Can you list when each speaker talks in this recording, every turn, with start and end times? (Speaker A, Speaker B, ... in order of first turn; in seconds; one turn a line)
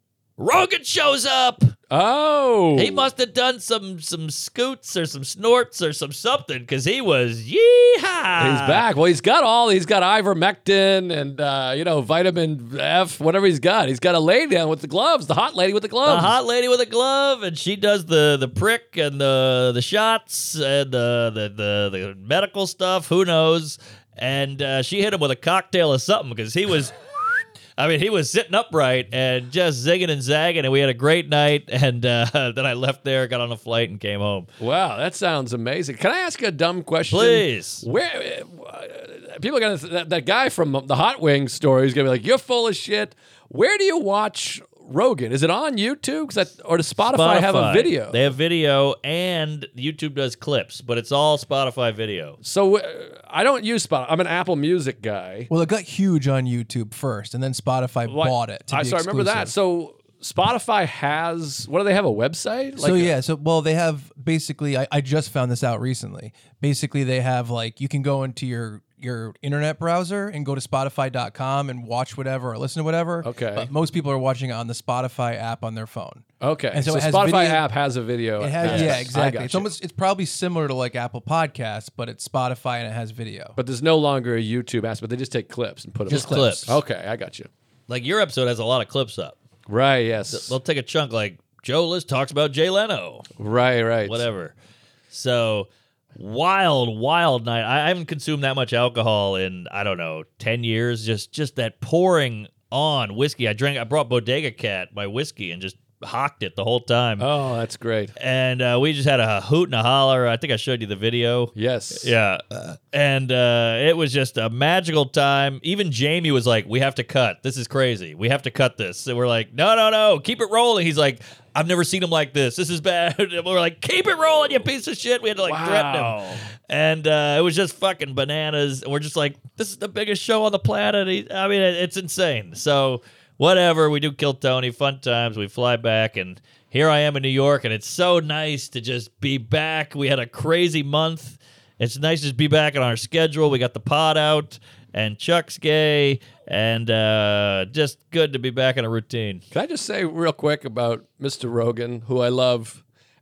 Speaker A: 0.4-1.7
Speaker B: 1.9-3.1
Speaker A: 2.8-8.8
Speaker B: 8.4-16.4
Speaker A: 16.0-34.5
Speaker B: 34.6-48.2
Speaker A: 37.1-37.8
Speaker A: 47.0-52.4
Speaker B: 52.4-55.5
Speaker C: 55.5-59.5
Speaker B: 58.1-63.1
Speaker C: 62.8-77.7
Speaker B: 73.2-73.7
Speaker B: 76.4-79.7
Speaker C: 78.4-83.6
Speaker A: 78.6-79.0
Speaker B: 83.6-87.5
Speaker C: 86.1-86.8
Speaker A: 86.1-86.7
Speaker A: 87.9-89.3
Speaker B: 89.7-90.5
Speaker A: 90.3-93.3
Speaker B: 93.4-94.2
Speaker A: 94.0-94.5
Speaker A: 95.1-107.3
Speaker B: 107.2-108.1
Speaker A: 108.2-149.4
Speaker B: 111.5-112.1
Speaker B: 125.4-126.4
Speaker B: 149.5-152.8